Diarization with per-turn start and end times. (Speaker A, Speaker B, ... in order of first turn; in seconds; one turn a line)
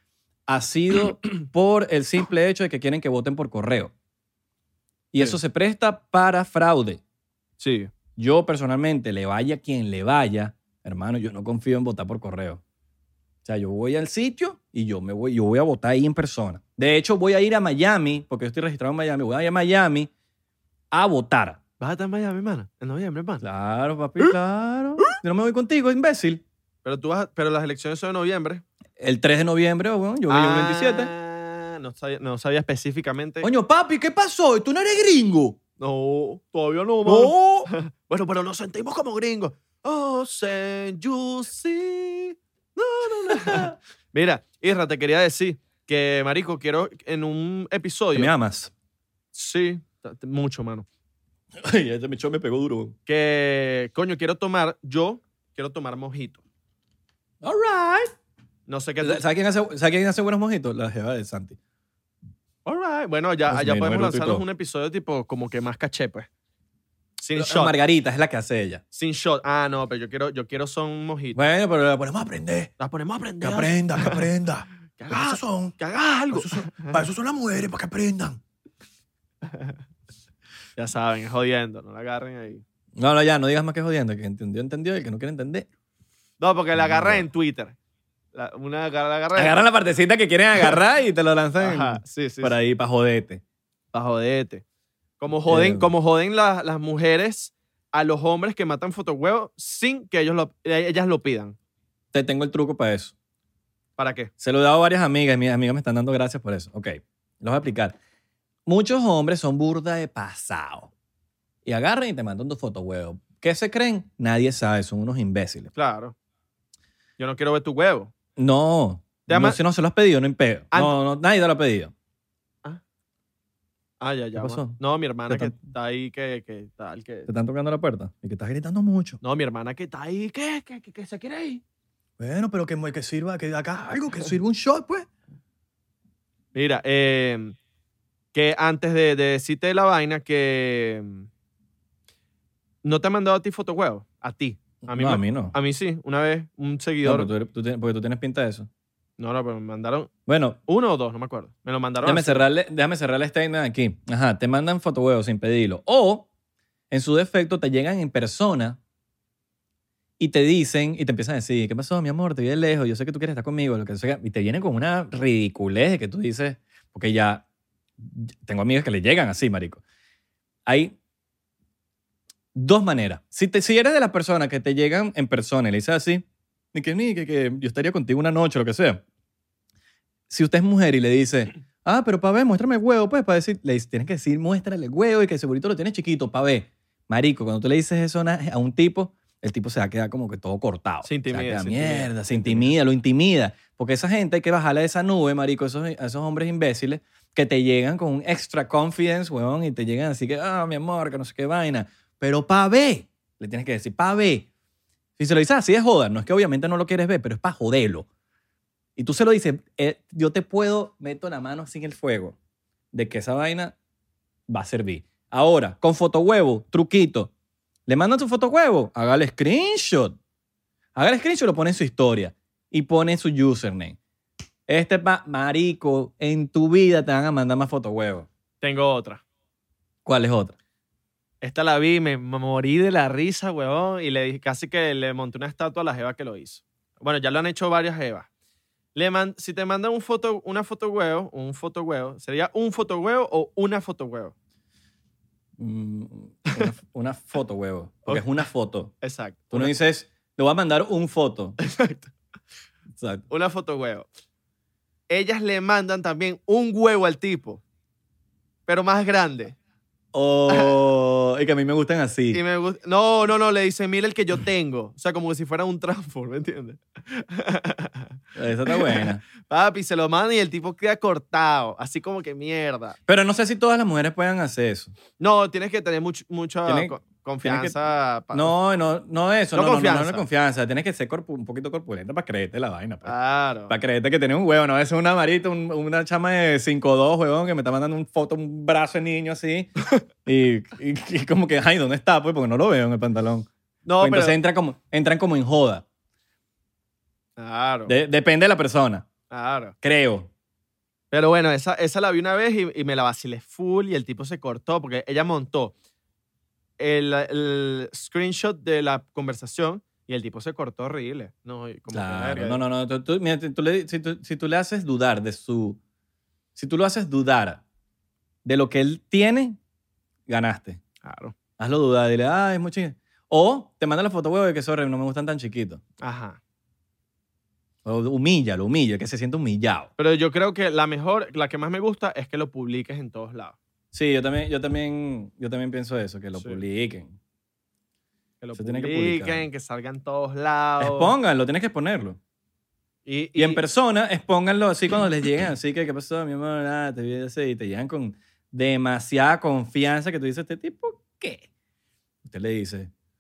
Speaker A: 0.5-3.9
Speaker A: 5.1-7.0
Speaker B: 7.6-7.9
Speaker A: 8.2-12.6
Speaker A: 13.4-20.1
Speaker A: 20.9-21.6
Speaker B: 21.8-23.4
Speaker A: 23.4-26.4
Speaker B: 26.9-28.6
Speaker A: 29.0-31.1
Speaker B: 30.3-33.5
Speaker A: 33.4-35.6
Speaker B: 35.8-48.3
Speaker A: 37.0-37.7
Speaker A: 43.2-43.8
Speaker A: 48.1-48.7
Speaker B: 49.3-50.9
Speaker A: 51.6-53.0
Speaker B: 53.1-56.4
Speaker A: 57.4-58.1
Speaker B: 58.7-59.2
Speaker A: 59.0-61.6
Speaker B: 62.6-66.3
Speaker A: 63.5-64.4
Speaker B: 67.2-67.7
Speaker A: 67.3-68.8
Speaker B: 68.9-71.4
Speaker A: 71.3-72.7
Speaker B: 72.8-74.3
Speaker A: 73.4-75.8
Speaker B: 75.0-77.0
Speaker A: 76.3-78.4
Speaker B: 79.5-79.8
Speaker B: 80.8-82.6
Speaker A: 83.0-85.7
Speaker B: 86.4-87.8
Speaker A: 86.8-87.3
Speaker B: 88.3-89.6
Speaker A: 89.3-93.4
Speaker B: 91.6-92.6
Speaker B: 93.9-94.6
Speaker B: 95.2-101.6
Speaker A: 95.5-95.9
Speaker A: 102.1-103.1
Speaker B: 104.0-104.3
Speaker A: 104.4-108.0
Speaker A: 108.7-110.9
Speaker A: 111.7-115.7
Speaker B: 115.8-116.2
Speaker B: 117.2-118.1
Speaker A: 118.4-121.9
Speaker B: 119.3-119.6
Speaker B: 124.0-127.3
Speaker A: 124.4-124.8
Speaker A: 125.3-125.6
Speaker A: 127.3-129.2
Speaker B: 129.2-131.6
Speaker A: 132.2-135.1
Speaker B: 136.5-137.6
Speaker B: 138.3-141.3
Speaker B: 142.8-147.3
Speaker A: 144.8-145.6
Speaker A: 147.0-148.7
Speaker B: 149.2-150.1
Speaker A: 150.3-150.6
Speaker B: 150.7-152.5
Speaker A: 152.0-156.3
Speaker A: 156.9-158.8
Speaker A: 160.2-167.4
Speaker A: 168.0-169.8
Speaker A: 170.7-171.0
Speaker A: 172.6-179.0
Speaker A: 180.3-204.5
Speaker B: 191.0-192.7
Speaker A: 205.2-208.1
Speaker A: 209.0-212.4
Speaker A: 212.9-213.8
Speaker A: 214.5-217.3
Speaker A: 217.9-220.2
Speaker A: 220.9-224.0
Speaker A: 224.7-228.3
Speaker B: 228.6-229.2
Speaker A: 230.1-230.6
Speaker B: 231.4-238.3
Speaker B: 238.9-244.3
Speaker A: 245.6-248.9
Speaker B: 248.1-248.4
Speaker B: 249.0-249.7
Speaker A: 249.5-251.6
Speaker B: 251.6-252.1
Speaker A: 252.9-253.3
Speaker B: 253.3-254.1
Speaker B: 255.1-257.6
Speaker B: 258.7-259.6
Speaker A: 260.1-262.4
Speaker B: 262.3-273.0
Speaker A: 268.4-269.2
Speaker A: 273.1-274.9
Speaker B: 275.2-278.5
Speaker A: 276.7-277.8
Speaker A: 278.3-283.1
Speaker B: 279.5-280.2
Speaker B: 283.0-283.8
Speaker A: 283.7-289.7
Speaker A: 290.2-293.5
Speaker B: 293.9-294.4
Speaker A: 294.0-295.9
Speaker B: 297.4-297.9
Speaker A: 297.9-299.1
Speaker B: 299.3-299.8
Speaker A: 299.8-300.3
Speaker B: 301.1-305.8
Speaker B: 306.8-312.6
Speaker A: 311.9-315.8
Speaker A: 316.6-317.6
Speaker A: 318.4-319.6
Speaker A: 320.3-320.8
Speaker B: 321.0-321.4
Speaker A: 321.6-325.8
Speaker B: 326.0-326.4
Speaker A: 327.9-329.9
Speaker B: 330.0-333.6
Speaker A: 333.9-337.2
Speaker B: 336.4-336.6
Speaker B: 338.4-341.1
Speaker A: 338.5-339.5
Speaker A: 340.8-342.2
Speaker B: 343.1-343.6
Speaker A: 343.4-351.5
Speaker A: 352.2-352.9